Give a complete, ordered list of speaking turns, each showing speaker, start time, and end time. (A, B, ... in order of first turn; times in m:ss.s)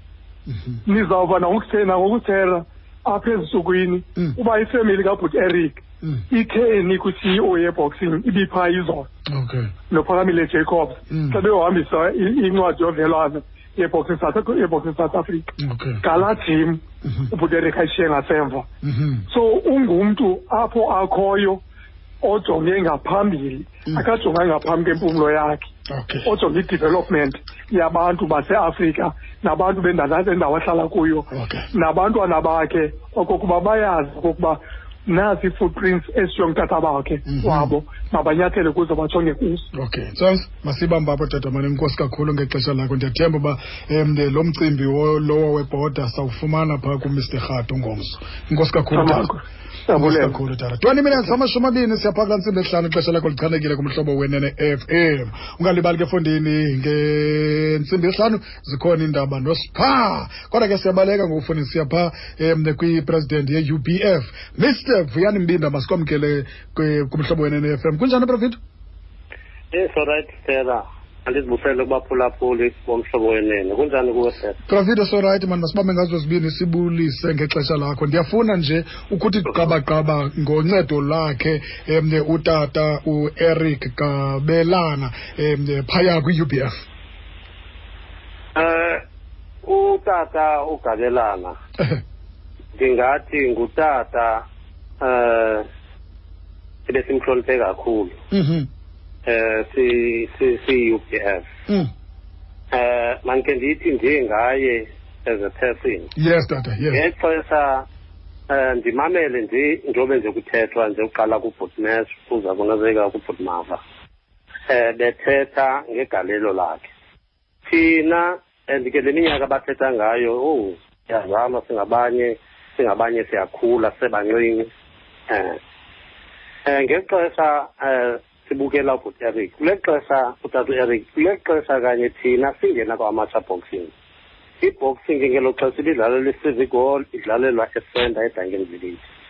0:00.5-0:00.8 A
0:00.8-0:09.1 B
0:09.3-0:09.7 A
0:09.9-0:18.7 B
0:11.1-0:11.4 A
0:15.6-0:16.2 A
0:17.0-0:17.3 A
0:18.8-0:19.3 A
0:19.3-0:21.6 B
0:22.2-0:25.7 B
0:25.9-0:26.3 A
0:26.2-0:39.7 B
0:31.3-0:31.7 A
0:37.3-0:37.7 A
0:39.7-0:49.3 A
0:48.9-0:50.4 B
0:50.0-1:08.6 A
1:09.7-1:14.6 C
1:14.7-1:26.8 A
1:28.6-1:29.0 C
1:29.6-1:31.6 C
1:32.8-1:34.4 C
1:35.0-1:35.7 C
1:36.9-1:38.2 C
1:38.3-1:38.7 A
1:39.3-1:41.5 C
1:42.7-1:46.1 C
1:46.2-1:47.0 A
1:46.9-1:47.8 C
1:48.5-1:53.8 C
1:54.7-1:56.9 C
1:57.7-2:04.7 C
2:05.3-2:05.6 C
2:06.6-2:13.9 C
2:14.6-2:19.0 C